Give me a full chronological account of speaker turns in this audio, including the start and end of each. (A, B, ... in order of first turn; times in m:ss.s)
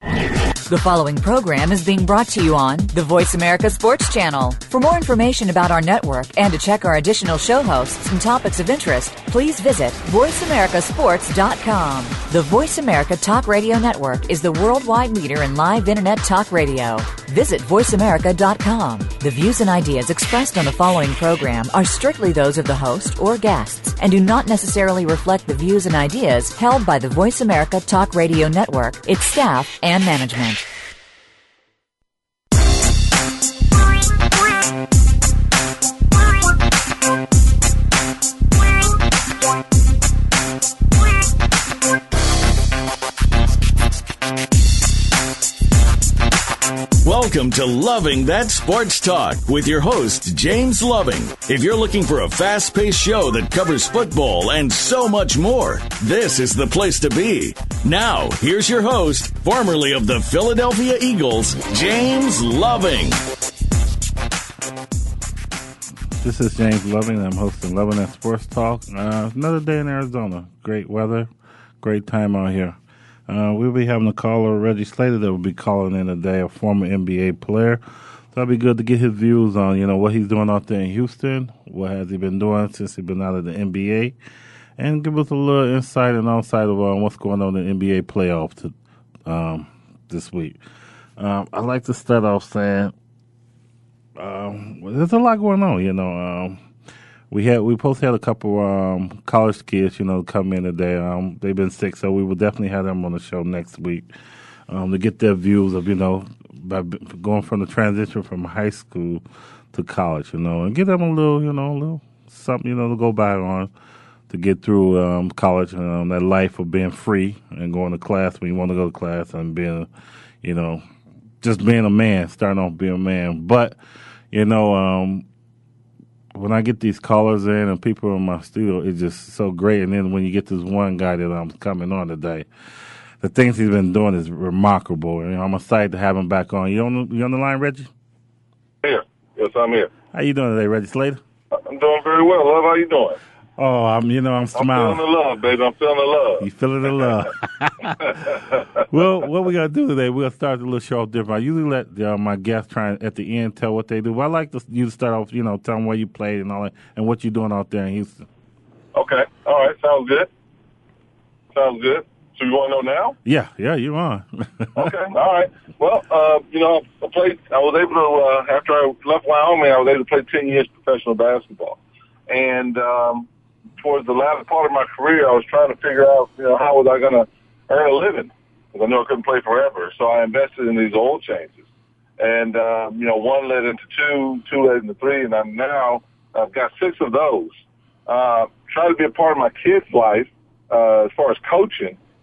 0:00.7-0:30.6 A
0:47.0-1:03.2 B
1:06.2-1:11.3 C
1:11.8-1:12.8 C
1:13.3-1:17.8 C
1:18.3-1:24.2 C
1:24.8-1:28.7 C
1:29.3-1:30.6 C
1:31.2-1:32.9 C
1:34.2-1:36.6 C
1:37.3-1:44.1 C
1:44.7-1:53.7 C
1:54.3-1:59.9 C
2:00.4-2:00.8 C
2:01.4-2:03.8 C
2:04.3-2:05.2 C
2:06.3-2:12.5 C
2:13.2-2:17.9 C
2:18.8-2:19.9 D
2:20.1-2:21.2 C
2:21.5-2:23.2 D
2:23.6-2:25.0 C
2:24.5-2:27.1 D
2:26.4-2:28.4 C
2:28.3-2:28.6 D
2:28.9-2:38.2 C
2:38.9-2:40.3 D
2:41.5-2:43.2 D
2:43.2-2:44.9 C
2:44.8-2:53.3 D
2:53.8-3:01.6 D
3:02.2-3:07.5 D
3:08.1-3:12.0 D